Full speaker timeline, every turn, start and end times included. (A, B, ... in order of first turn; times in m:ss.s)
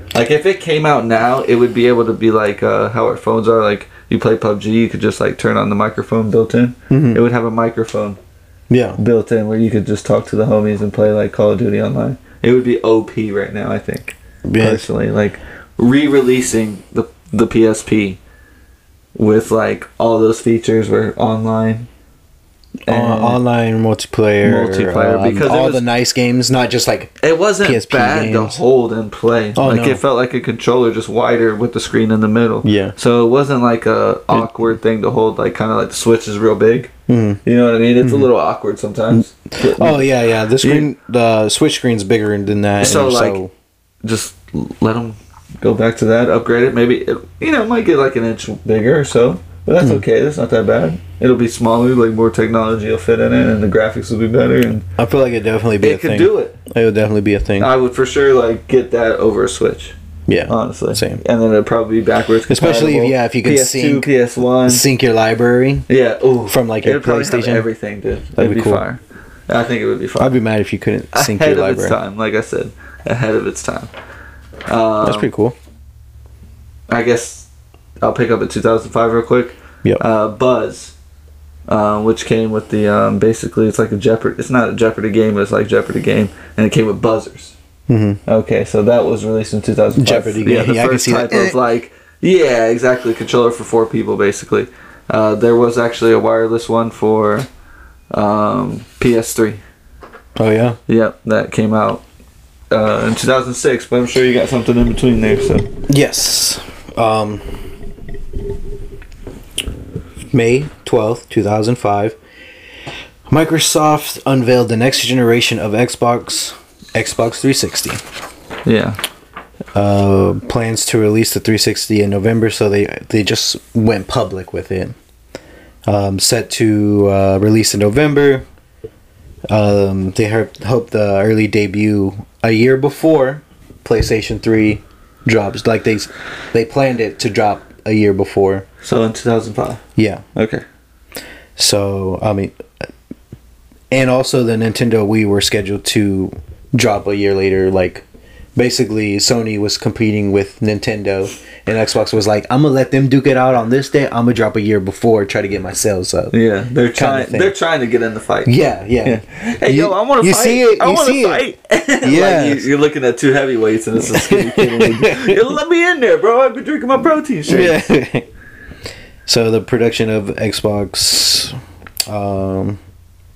0:00.1-0:08.2 A
0:06.9-0:07.2 B
0:08.7-0:09.0 B
0:09.0-0:18.2 A
0:14.4-0:14.9 B
0:19.1-0:21.9 A
0:22.9-0:23.4 A
0:22.9-0:28.6 B
0:24.4-0:25.8 A
0:27.2-0:36.9 A
0:29.6-0:30.0 B
0:32.6-0:33.0 B
0:37.1-0:37.4 B
0:37.4-0:40.9 A
0:38.0-0:38.3 B
0:39.1-0:43.5 B
0:42.8-0:43.4 A
0:44.0-0:54.8 A
0:55.0-0:57.7 B
0:55.8-0:56.6 A
0:57.6-1:00.0 A
1:00.3-1:01.2 B
1:00.5-1:04.8 A
1:02.5-1:04.1 B
1:04.7-1:05.9 B
1:05.9-1:10.4 A
1:06.5-1:07.7 B
1:08.4-1:08.8 B
1:10.2-1:12.0 B
1:11.1-1:13.9 A
1:14.7-1:15.3 A
1:15.0-1:15.6 B
1:16.9-1:17.5 A
1:18.0-1:20.9 A
1:21.7-1:27.6 A
1:27.9-1:28.2 B
1:28.3-1:37.5 A
1:30.0-1:31.6 B
1:38.1-1:39.6 A
1:40.4-1:40.8 B
1:40.9-1:42.0 A
1:42.7-1:45.7 A
1:45.9-1:47.6 B
1:50.3-1:52.2 B
1:53.3-1:58.0 B
1:58.6-1:59.0 A
1:59.7-2:05.0 B
2:05.9-2:08.4 B
2:09.5-2:18.7 B
2:18.8-2:19.8 A
2:20.0-2:20.2 B
2:20.4-2:20.6 A
2:21.6-2:22.9 B
2:23.9-2:28.0 B
2:28.6-2:36.4 B
2:36.3-2:47.9 A
2:37.0-2:37.6 B
2:38.4-2:41.4 B
2:42.0-2:42.7 B
2:44.0-2:45.4 B
2:47.5-2:48.3 B
2:49.3-2:52.8 B